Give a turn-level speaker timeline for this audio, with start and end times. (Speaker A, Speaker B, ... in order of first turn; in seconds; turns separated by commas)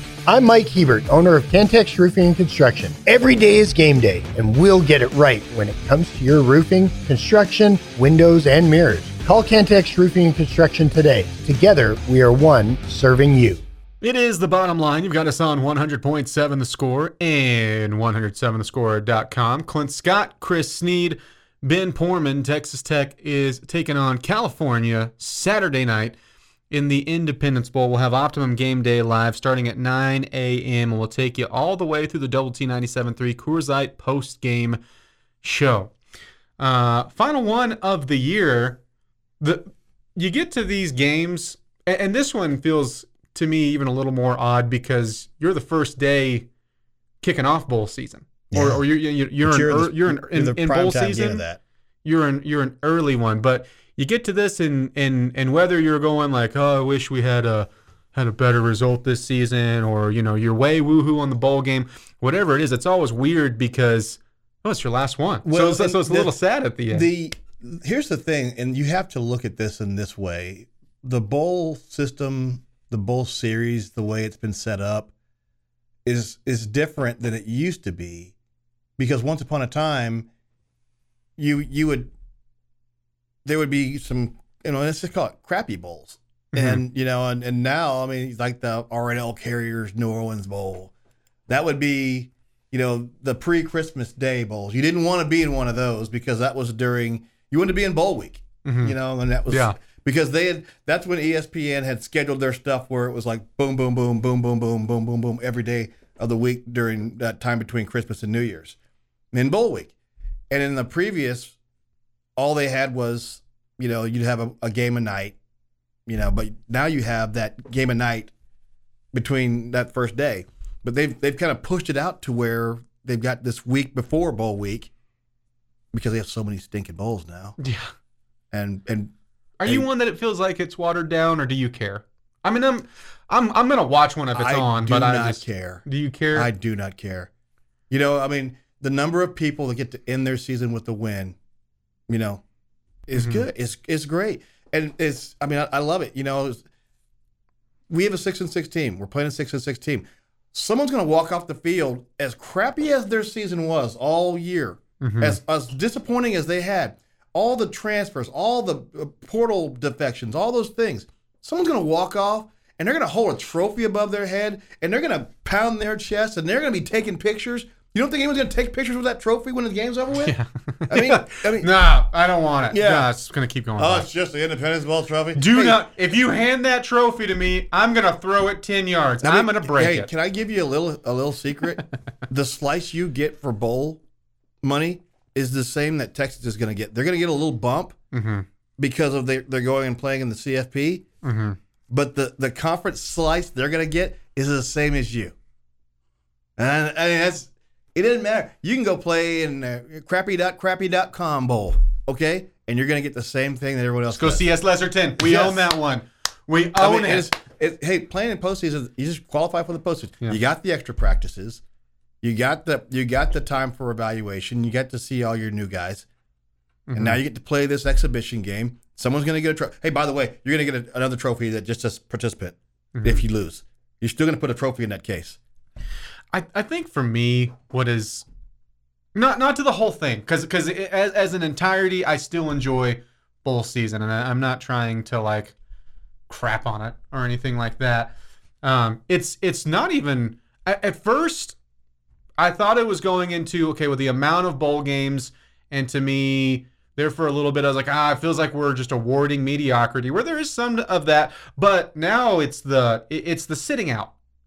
Speaker A: 0.2-13.6, Speaker B: 14.0-26.2, Speaker B: 26.7-34.8, Speaker B: 35.4-35.9, Speaker B: 36.6-38.8, Speaker B: 39.4-46.5, Speaker B: 47.2-51.4, Speaker C: 48.5-48.8, Speaker C: 49.4-51.6, Speaker B: 52.0-67.1, Speaker C: 65.4-66.3, Speaker C: 66.9-75.1, Speaker C: 76.0-78.3, Speaker C: 79.0-80.3, Speaker C: 81.4-82.1, Speaker C: 83.4-90.9, Speaker B: 86.5-86.8, Speaker C: 91.5-108.8, Speaker B: 98.6-99.0, Speaker B: 99.5-99.8, Speaker C: 109.3-109.9, Speaker C: 110.5-111.5, Speaker C: 112.3-115.4, Speaker C: 116.1-118.3, Speaker C: 119.1-124.9, Speaker C: 125.9-127.6, Speaker B: 127.6-127.9, Speaker C: 128.5-129.1, Speaker B: 129.6-136.5, Speaker C: 134.3-137.3, Speaker C: 137.9-141.4, Speaker C: 142.1-142.4, Speaker C: 143.1-146.6, Speaker B: 143.1-143.5, Speaker C: 147.9-170.3, Speaker B: 155.0-155.4, Speaker B: 170.2-174.1, Speaker C: 170.9-171.7, Speaker C: 172.7-173.1, Speaker C: 173.8-175.8, Speaker B: 175.3-180.1, Speaker C: 179.2-184.0, Speaker C: 184.6-187.9, Speaker B: 188.1-188.4, Speaker C: 188.8-191.0, Speaker B: 191.2-191.6, Speaker C: 191.9-195.3, Speaker C: 196.6-204.5, Speaker B: 204.1-207.3, Speaker C: 205.2-205.7, Speaker C: 206.8-211.6, Speaker C: 212.2-216.1, Speaker B: 216.9-217.2, Speaker C: 216.9-225.4, Speaker B: 222.9-223.2, Speaker B: 226.3-228.2, Speaker B: 229.1-235.5, Speaker B: 236.3-241.6, Speaker B: 242.4-254.1